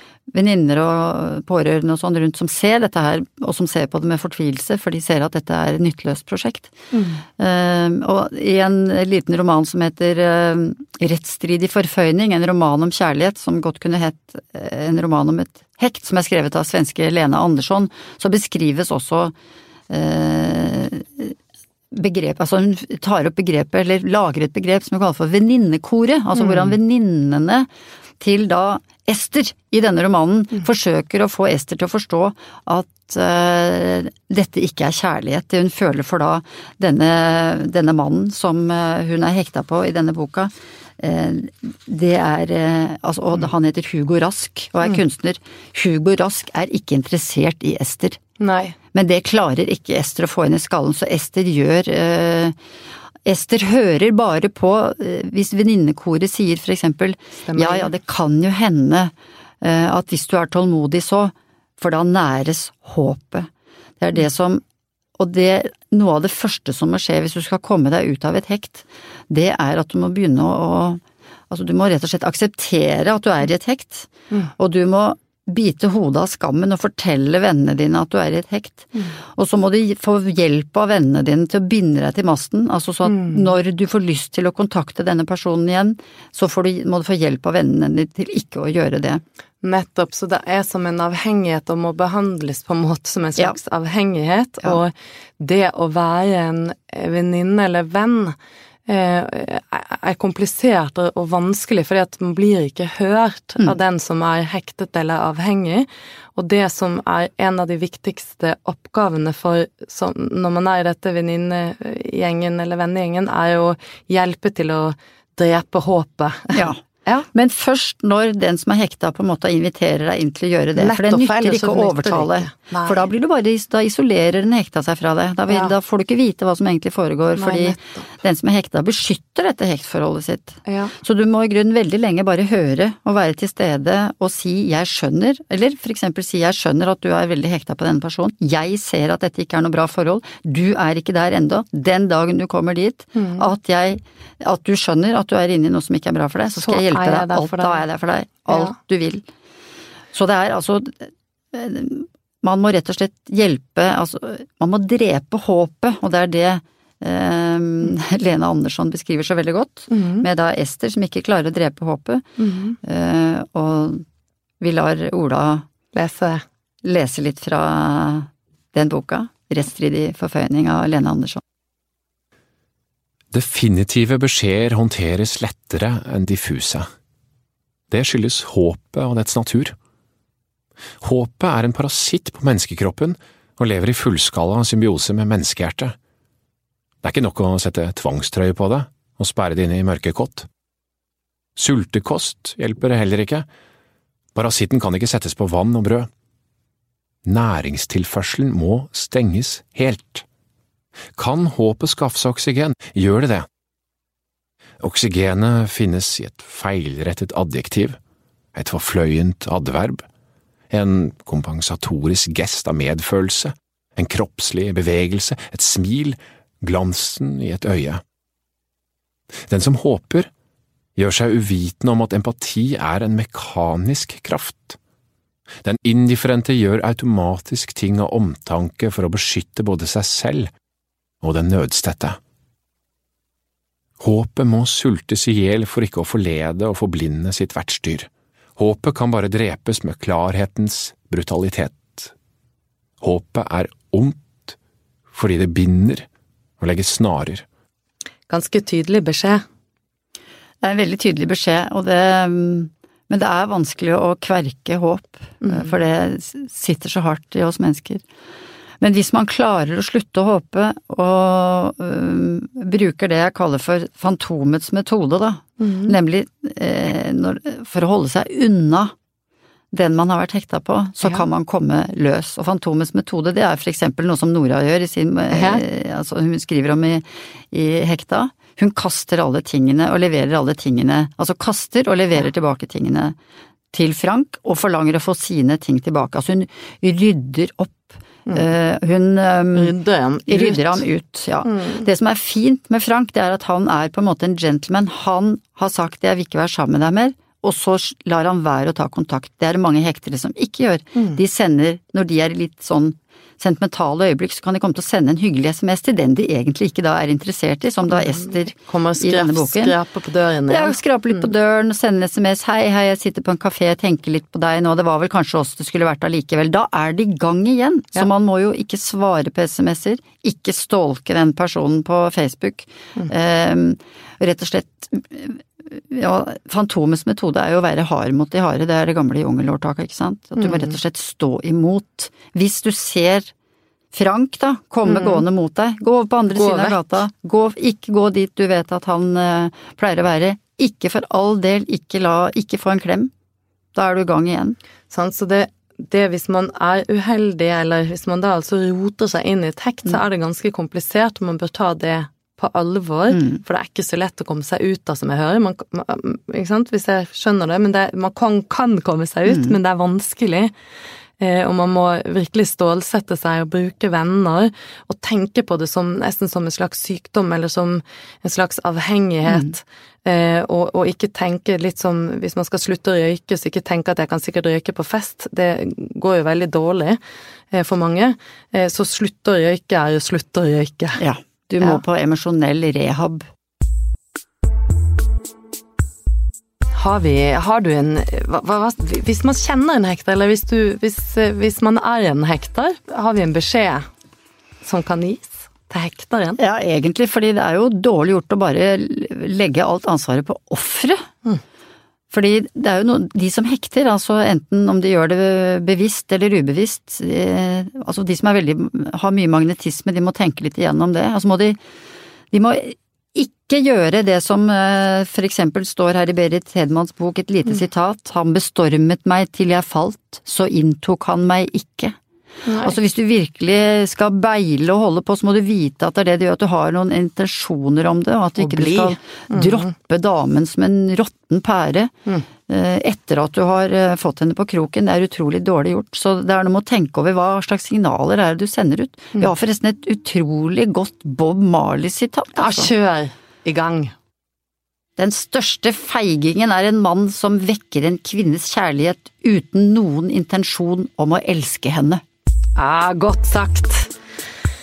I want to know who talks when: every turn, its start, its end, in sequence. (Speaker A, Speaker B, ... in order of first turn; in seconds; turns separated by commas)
Speaker A: 0.3-6.7, Speaker B: 6.9-7.2, Speaker A: 7.4-19.3, Speaker A: 19.9-21.4, Speaker A: 21.9-27.7, Speaker B: 26.4-26.8, Speaker A: 28.2-48.2, Speaker B: 48.4-48.8, Speaker A: 48.9-52.6, Speaker A: 53.3-63.5, Speaker B: 57.4-57.9, Speaker A: 64.0-64.6, Speaker A: 65.2-89.2, Speaker B: 83.1-83.4, Speaker B: 89.6-98.4, Speaker B: 98.9-117.3, Speaker A: 116.5-116.8, Speaker A: 117.3-149.2, Speaker B: 120.8-123.1, Speaker B: 127.4-128.1, Speaker B: 130.7-130.9, Speaker B: 143.2-143.4, Speaker B: 146.6-147.8, Speaker A: 150.1-162.2, Speaker B: 159.9-160.2, Speaker B: 162.4-162.8, Speaker A: 162.8-164.0, Speaker A: 164.6-165.7, Speaker B: 165.9-166.4, Speaker A: 166.8-171.4, Speaker C: 173.3-176.9, Speaker C: 177.9-179.8, Speaker C: 181.0-185.9, Speaker C: 187.0-190.5, Speaker C: 191.6-193.4, Speaker C: 194.3-196.1, Speaker C: 197.2-200.3, Speaker C: 201.2-203.5, Speaker C: 204.8-208.0, Speaker C: 208.6-210.0, Speaker C: 210.7-218.0, Speaker C: 219.5-220.3, Speaker C: 220.9-224.8, Speaker C: 225.6-230.5, Speaker C: 231.2-232.2, Speaker C: 234.0-242.1, Speaker C: 243.0-244.6, Speaker C: 245.1-246.1, Speaker C: 246.6-247.4, Speaker B: 248.3-249.4, Speaker A: 250.6-258.0, Speaker B: 255.4-255.8, Speaker A: 258.8-268.9, Speaker B: 265.6-266.0, Speaker A: 269.7-283.1, Speaker B: 275.3-275.6, Speaker A: 283.7-289.7, Speaker B: 289.6-290.9, Speaker A: 290.3-309.7, Speaker B: 291.4-291.9, Speaker B: 307.9-311.3, Speaker A: 310.5-333.3, Speaker B: 330.4-330.7, Speaker A: 333.9-343.1, Speaker B: 334.9-335.2, Speaker B: 336.3-336.8, Speaker A: 343.8-344.6, Speaker B: 344.9-360.5, Speaker A: 353.1-353.4, Speaker B: 361.2-377.0, Speaker A: 369.3-369.5, Speaker B: 377.5-381.0, Speaker A: 381.0-383.2, Speaker B: 386.7-393.9, Speaker B: 394.6-396.4, Speaker A: 396.4-401.1, Speaker A: 402.1-411.6, Speaker A: 412.3-421.9, Speaker B: 422.4-422.8, Speaker A: 422.6-431.9, Speaker B: 428.4-429.6, Speaker A: 432.5-442.7, Speaker B: 442.4-443.9, Speaker A: 445.0-452.0, Speaker B: 452.6-453.9